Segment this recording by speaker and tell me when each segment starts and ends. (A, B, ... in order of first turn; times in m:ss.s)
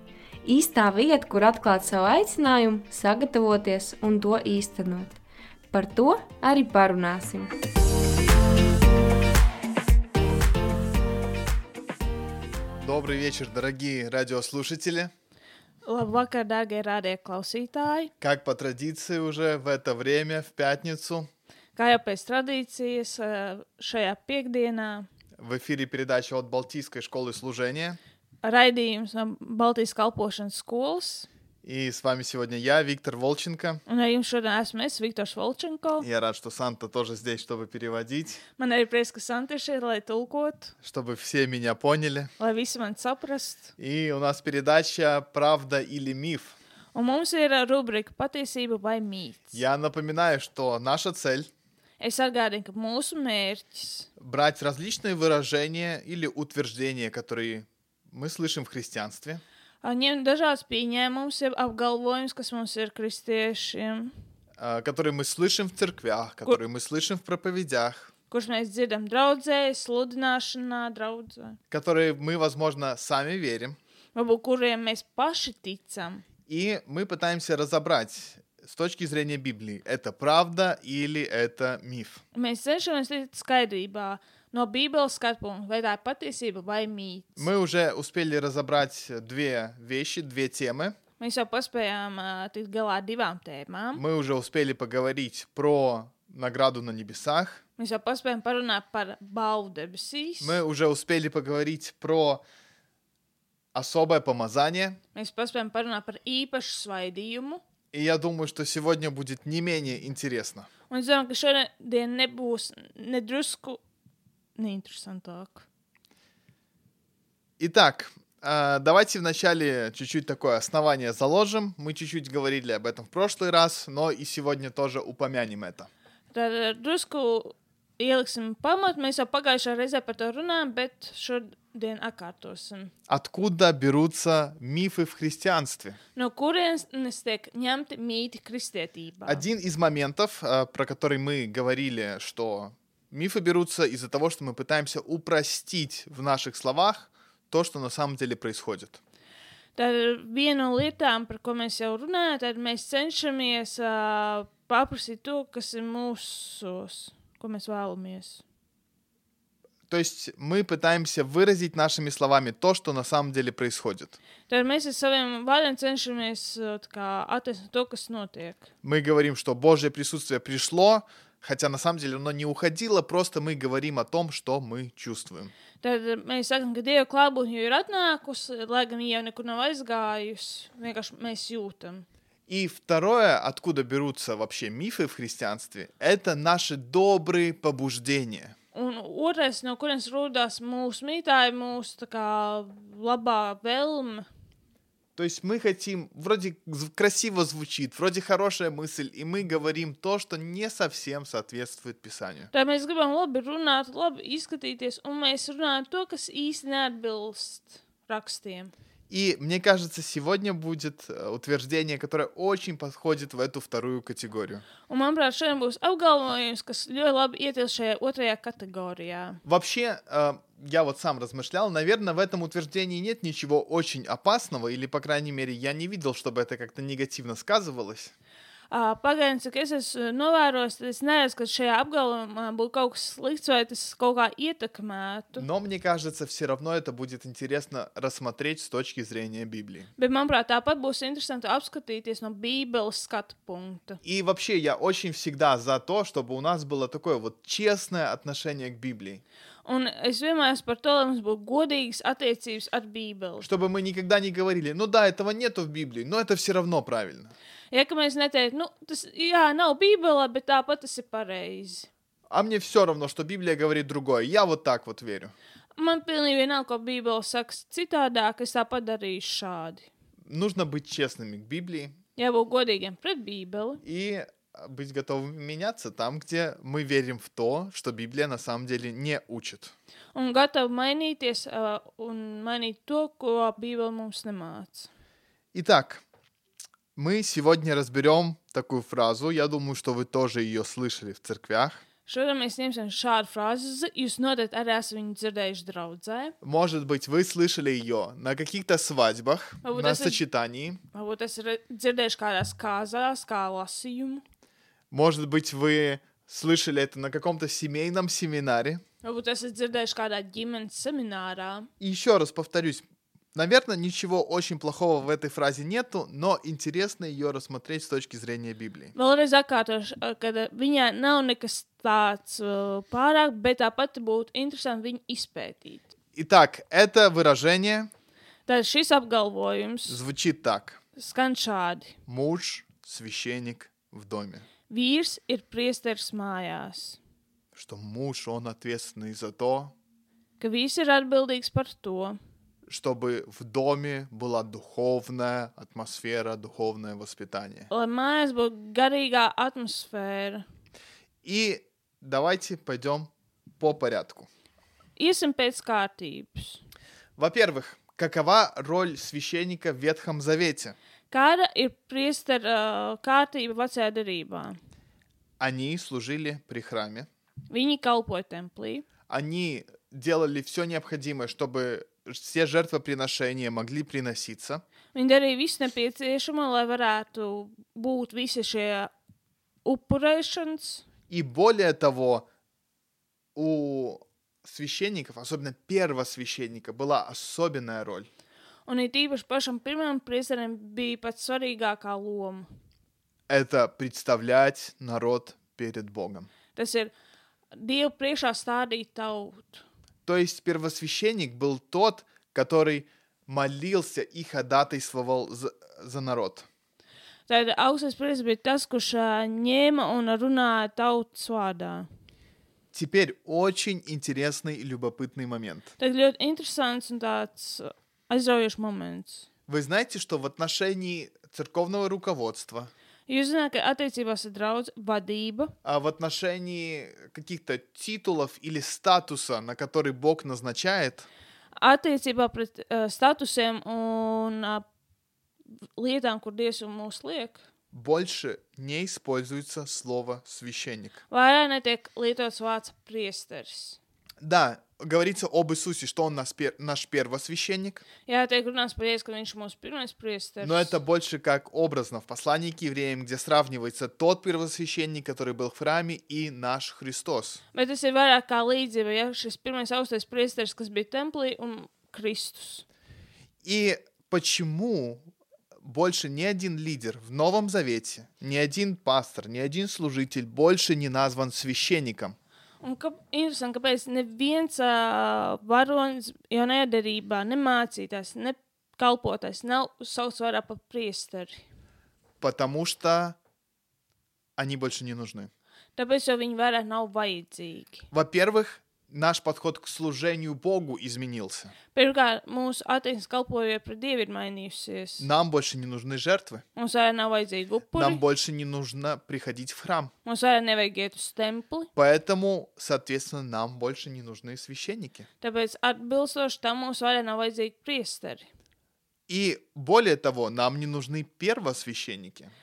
0:00.4-0:05.2 A
0:05.7-0:07.5 A
0:12.8-0:15.1 B
0:15.8-0:18.1 C
0:18.2-0:21.3 B
0:21.8-0:25.1 C
0:25.4-0:28.0 B
0:28.4-0:31.3 C
0:31.6-0:33.8 B
0:33.9-0:36.0 C
0:36.0-0:38.4 B
0:38.6-0:40.7 C
0:40.8-0:42.3 B
0:42.4-0:43.7 C
0:43.8-0:46.6 B
0:46.9-0:49.6 C
0:49.5-0:51.5 B
0:52.0-0:54.1 C
0:54.2-0:59.4 B
0:59.8-1:04.1 C
1:04.6-1:08.1 B
1:08.3-1:11.6 C
1:11.7-1:13.8 B
1:14.1-1:16.2 C
1:16.5-1:22.2 B
1:22.3-1:27.5 C
1:27.4-1:31.0 B
1:31.2-1:34.0 C
1:33.9-1:37.6 B
1:37.8-1:40.6 C
1:40.4-1:42.4 B
1:43.7-1:45.0 B
1:45.1-1:47.6 C
1:47.9-1:50.7 B
1:50.9-1:53.8 C
1:54.6-1:55.6 C
1:57.6-2:05.9 B
2:06.3-2:12.9 C
2:13.1-2:16.0 B
2:16.2-2:19.4 C
2:19.2-2:29.0 B
2:29.8-2:38.4 C
2:39.9-2:44.2 B
2:44.5-2:48.7 C
2:48.8-2:55.5 B
2:55.8-3:02.0 C
3:02.5-3:08.5 B
3:08.7-3:14.3 C
3:15.2-3:22.5 B
3:22.5-3:28.7 C
3:29.1-3:34.6 B
3:34.8-3:39.4 C
3:39.4-3:48.1 B
3:48.7-3:55.4 C
3:55.4-3:59.9 B
4:00.0-4:04.0 C
4:04.0-4:09.2 B
4:09.6-4:13.5 C
4:13.4-4:17.3 B
4:17.7-4:21.9 C
4:22.3-4:25.3 B
4:25.8-4:29.9 C
4:30.2-4:32.0 B
4:32.2-4:33.8 C
4:33.8-4:39.7 B
4:40.1-4:44.9 C
4:45.5-4:46.0 B
4:47.0-4:51.8 B
4:52.0-4:56.3 C
4:56.4-5:00.8 B
4:59.6-5:00.2 C
5:00.9-5:04.2 C
5:04.9-5:08.8 B
5:09.0-5:11.7 C
5:11.8-5:12.8 B
5:13.3-5:18.9 B
5:18.9-5:25.9 C
5:26.1-5:27.9 B
5:28.5-5:30.0 C
5:29.9-5:30.8 B
5:31.0-5:32.0 C
5:32.1-5:34.4 B
5:34.7-5:37.0 C
5:37.5-5:39.7 B
5:40.4-5:42.2 C
5:42.7-5:47.7 B
5:47.7-5:50.4 C
5:51.2-5:54.3 B
5:55.0-5:56.6 C
5:57.2-6:00.8 B
6:01.1-6:04.6 C
6:05.4-6:07.1 B
6:07.5-6:08.8 C
6:09.1-6:14.6 B
6:14.9-6:18.9 C
6:19.6-6:20.8 C
6:21.1-6:22.3 B
6:23.3-6:28.1 B
6:28.7-6:32.5 C
6:33.3-6:36.3 B
6:36.5-6:36.9 C
6:37.5-6:39.6 C
6:40.0-6:46.5 B
6:47.3-6:51.9 C
6:52.7-6:55.7 B
6:55.8-6:59.2 C
6:59.5-7:02.7 B
7:03.1-7:05.5 C
7:05.6-7:11.1 B
7:11.6-7:14.6 C
7:15.8-7:17.4 C
7:17.7-7:21.0 B
7:21.1-7:23.8 C
7:24.2-7:27.8 B
7:28.0-7:30.8 C
7:30.4-7:37.4 B
7:37.5-7:42.6 C
7:43.4-7:45.1 B
7:45.6-7:52.2 B
7:52.6-8:01.4 C
8:02.2-8:03.2 B
8:04.4-8:05.3 B
8:05.8-8:07.9 C
8:07.9-8:11.5 B
8:11.7-8:15.1 C
8:15.0-8:16.4 B
8:16.6-8:18.0 C
8:17.7-8:19.9 B
8:20.0-8:21.7 C
8:21.7-8:25.1 B
8:25.2-8:28.3 C
8:29.1-8:32.3 B